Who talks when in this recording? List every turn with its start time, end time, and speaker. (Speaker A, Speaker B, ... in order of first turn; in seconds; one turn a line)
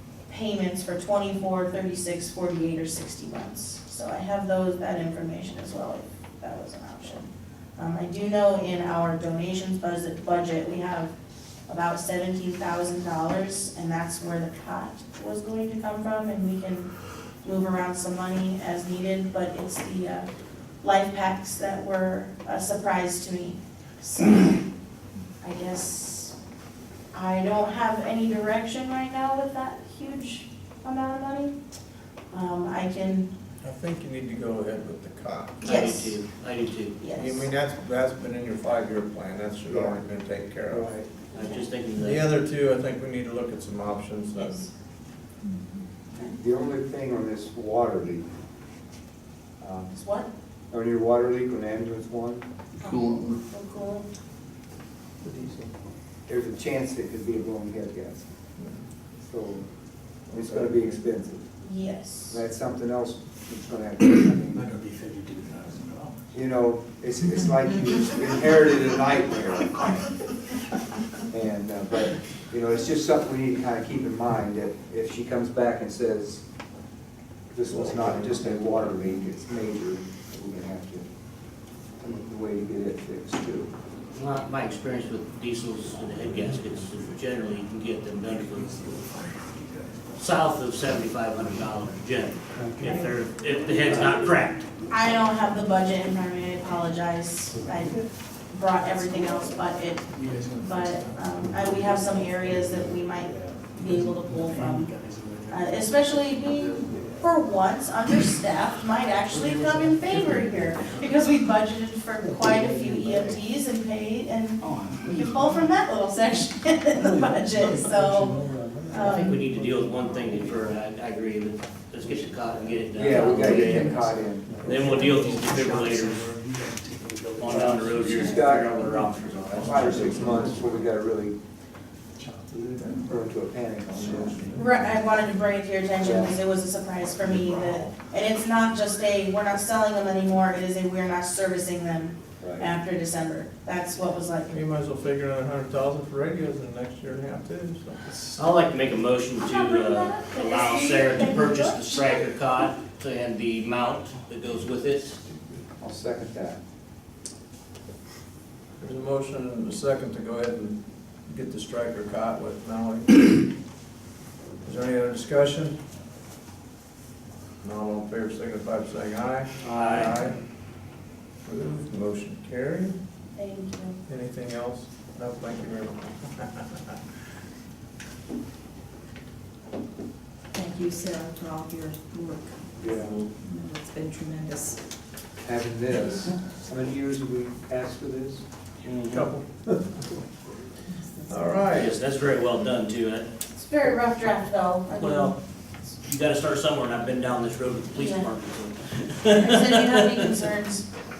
Speaker A: 0.3-11.1
Speaker A: 11.7-16.9
Speaker A: 17.4-20.3
Speaker A: 20.8-24.6
Speaker A: 25.4-26.4
Speaker A: 27.1-31.6
Speaker A: 32.3-33.3
Speaker B: 33.6-35.6
Speaker C: 35.6-37.0
Speaker A: 35.6-36.2
Speaker A: 37.0-37.5
Speaker B: 37.1-40.9
Speaker D: 39.7-40.0
Speaker D: 40.7-41.1
Speaker A: 41.3-41.7
Speaker C: 41.3-42.3
Speaker B: 42.0-44.7
Speaker A: 44.4-44.7
Speaker D: 46.2-48.3
Speaker D: 49.6-49.9
Speaker A: 50.0-50.3
Speaker D: 50.7-52.5
Speaker A: 52.8-54.1
Speaker B: 55.2-55.7
Speaker D: 56.3-58.3
Speaker D: 59.2-59.7
Speaker D: 60.3-61.5
Speaker B: 60.3-60.9
Speaker A: 61.6-62.4
Speaker D: 62.3-64.8
Speaker E: 64.5-66.1
Speaker D: 66.3-70.0
Speaker D: 71.3-76.4
Speaker D: 77.5-81.1
Speaker E: 78.3-78.9
Speaker D: 82.0-83.7
Speaker C: 84.1-88.9
Speaker E: 86.1-87.1
Speaker E: 88.2-90.3
Speaker C: 90.2-94.7
Speaker E: 91.4-91.8
Speaker E: 92.5-94.9
Speaker A: 94.9-105.0
Speaker E: 97.6-98.0
Speaker E: 99.0-99.4
Speaker E: 100.2-107.3
Speaker A: 105.5-119.5
Speaker E: 109.3-111.2
Speaker E: 112.5-113.3
Speaker E: 114.6-115.3
Speaker E: 117.0-120.8
Speaker C: 119.0-124.0
Speaker E: 122.1-130.9
Speaker D: 123.0-124.5
Speaker C: 124.6-126.3
Speaker C: 127.4-130.2
Speaker D: 128.1-128.8
Speaker D: 129.5-131.4
Speaker E: 132.2-133.2
Speaker D: 133.0-134.5
Speaker E: 133.9-135.0
Speaker A: 134.6-144.6
Speaker D: 136.0-136.4
Speaker D: 142.4-142.7
Speaker B: 144.5-148.0
Speaker C: 148.3-155.2
Speaker A: 149.4-152.3
Speaker D: 155.8-156.6
Speaker B: 158.8-163.5
Speaker B: 164.6-165.8
Speaker B: 167.6-170.4
Speaker C: 169.6-170.2
Speaker B: 171.4-173.0
Speaker A: 173.4-174.0
Speaker B: 174.1-176.8
Speaker F: 180.5-184.8
Speaker D: 182.8-183.2
Speaker D: 185.4-188.4
Speaker C: 188.8-189.3
Speaker B: 189.1-189.9
Speaker F: 190.9-191.7
Speaker B: 191.3-192.0
Speaker C: 191.7-193.3
Speaker A: 193.5-195.4
Speaker C: 194.9-195.4
Speaker C: 196.0-200.2
Speaker A: 198.0-198.3
Speaker A: 199.3-200.9